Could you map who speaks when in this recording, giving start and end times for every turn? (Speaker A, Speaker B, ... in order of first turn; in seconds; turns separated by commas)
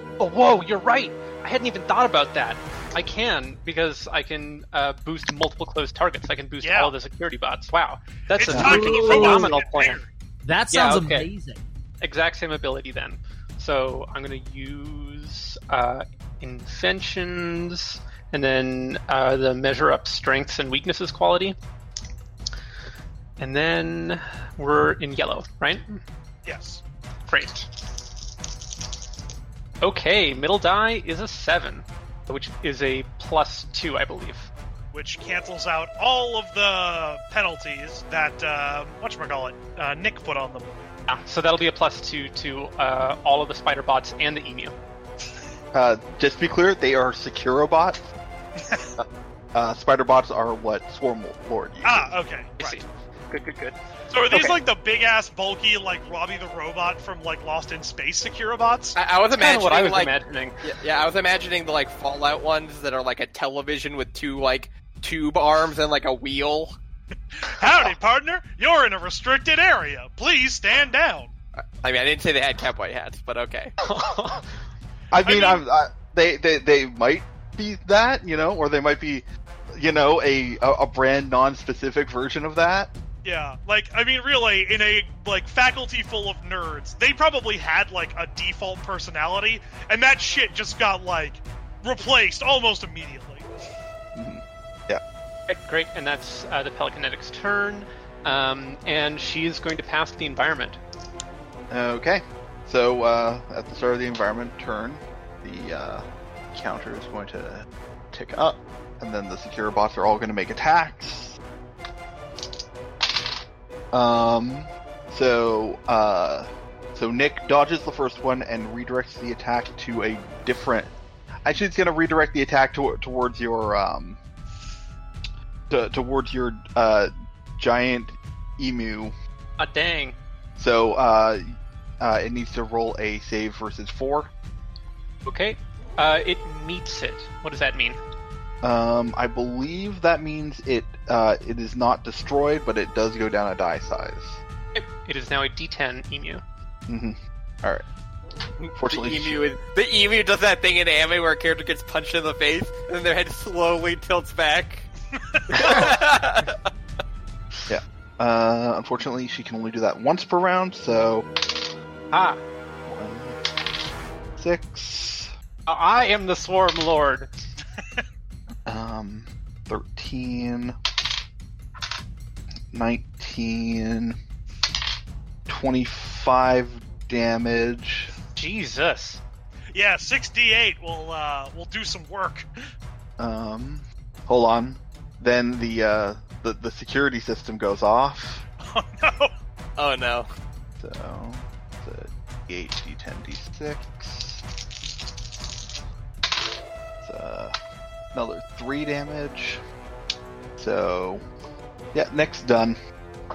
Speaker A: 0.2-10.0, Speaker B: 6.6-6.9, Speaker B: 8.3-10.1, Speaker C: 8.5-8.8, Speaker D: 8.5-9.5, Speaker D: 10.4-11.6, Speaker A: 10.7-11.3, Speaker A: 12.0-21.6, Speaker A: 23.4-26.0, Speaker B: 26.4-26.8, Speaker A: 27.3-27.7, Speaker A: 29.8-34.5, Speaker B: 34.9-40.7, Speaker A: 41.1-44.7, Speaker C: 45.7-48.1, Speaker C: 49.5-52.1, Speaker B: 51.8-52.8, Speaker A: 52.6-53.8, Speaker B: 54.1-59.0, Speaker A: 54.3-54.6, Speaker E: 59.0-66.8, Speaker A: 59.3-60.6, Speaker B: 67.3-71.3, Speaker E: 67.6-67.9, Speaker E: 71.5-73.8, Speaker A: 73.8-74.5, Speaker C: 75.1-82.9, Speaker B: 75.2-75.6, Speaker B: 83.2-93.5, Speaker C: 94.2-95.0, Speaker A: 95.5-100.8, Speaker C: 101.7-111.4, Speaker C: 113.9-120.9, Speaker C: 121.5-124.2, Speaker C: 125.7-129.1, Speaker A: 129.6-130.2, Speaker C: 130.6-134.3, Speaker A: 135.2-138.0, Speaker C: 138.6-144.4, Speaker A: 144.8-146.4, Speaker C: 146.9-147.8, Speaker E: 148.6-154.9, Speaker C: 148.8-149.3, Speaker B: 155.2-155.6, Speaker E: 155.5-156.6, Speaker C: 157.7-161.3, Speaker A: 162.1-162.4, Speaker C: 162.9-163.4, Speaker C: 164.4-165.3, Speaker A: 165.7-167.3, Speaker C: 168.7-170.8, Speaker C: 172.7-174.2, Speaker C: 175.5-178.1, Speaker A: 178.4-179.2, Speaker B: 179.7-182.5, Speaker C: 183.2-188.4, Speaker B: 188.6-189.3, Speaker E: 189.8-190.3, Speaker C: 190.8-194.4, Speaker C: 197.0-197.5, Speaker C: 198.1-199.6, Speaker C: 200.6-201.2, Speaker C: 201.9-202.8